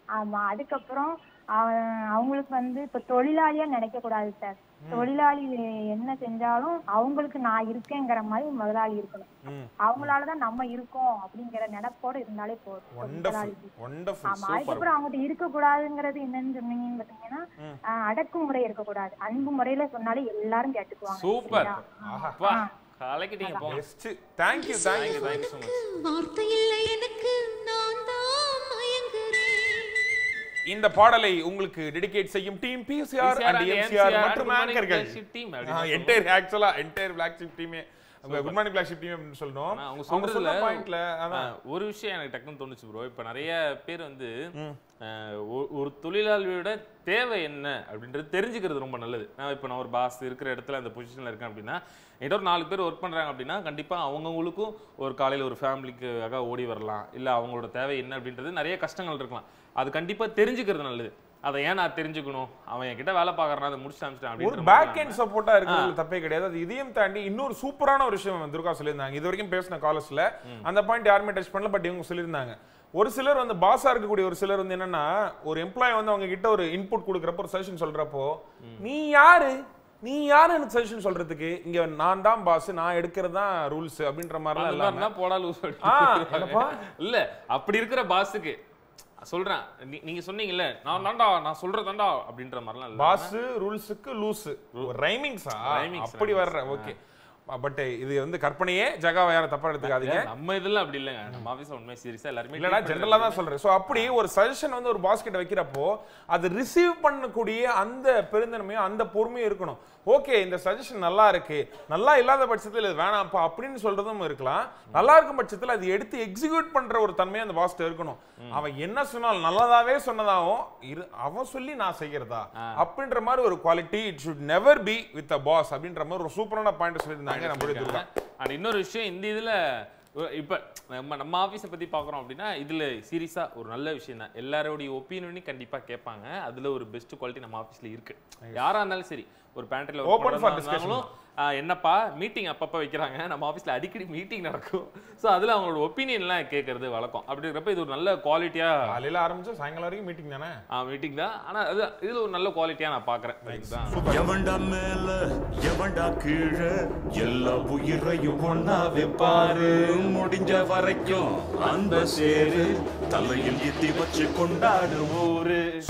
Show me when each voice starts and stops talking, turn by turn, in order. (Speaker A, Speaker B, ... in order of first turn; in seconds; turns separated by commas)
Speaker A: 0.2-13.7, Speaker B: 9.4-10.2, Speaker B: 12.9-14.9, Speaker A: 14.3-17.4, Speaker A: 18.1-22.7, Speaker C: 21.1-21.8, Speaker B: 21.5-22.5, Speaker C: 22.4-23.8, Speaker A: 23.4-23.7, Speaker B: 23.6-25.4, Speaker D: 24.5-30.2, Speaker C: 24.9-25.9, Speaker B: 30.7-41.5, Speaker C: 33.2-36.2, Speaker C: 38.2-38.6, Speaker C: 39.7-44.3, Speaker C: 45.0-65.9, Speaker B: 64.4-85.1, Speaker C: 84.5-88.6, Speaker B: 85.8-86.8, Speaker C: 89.2-93.3, Speaker B: 93.0-97.0, Speaker C: 95.6-96.9, Speaker B: 97.5-100.3, Speaker C: 99.8-104.2, Speaker B: 102.6-128.0, Speaker C: 127.3-148.9, Speaker B: 138.4-138.7, Speaker B: 140.0-141.1, Speaker B: 148.9-150.6, Speaker C: 150.7-154.1, Speaker B: 153.4-154.4, Speaker E: 154.1-165.3, Speaker C: 161.8-163.7, Speaker C: 165.1-165.7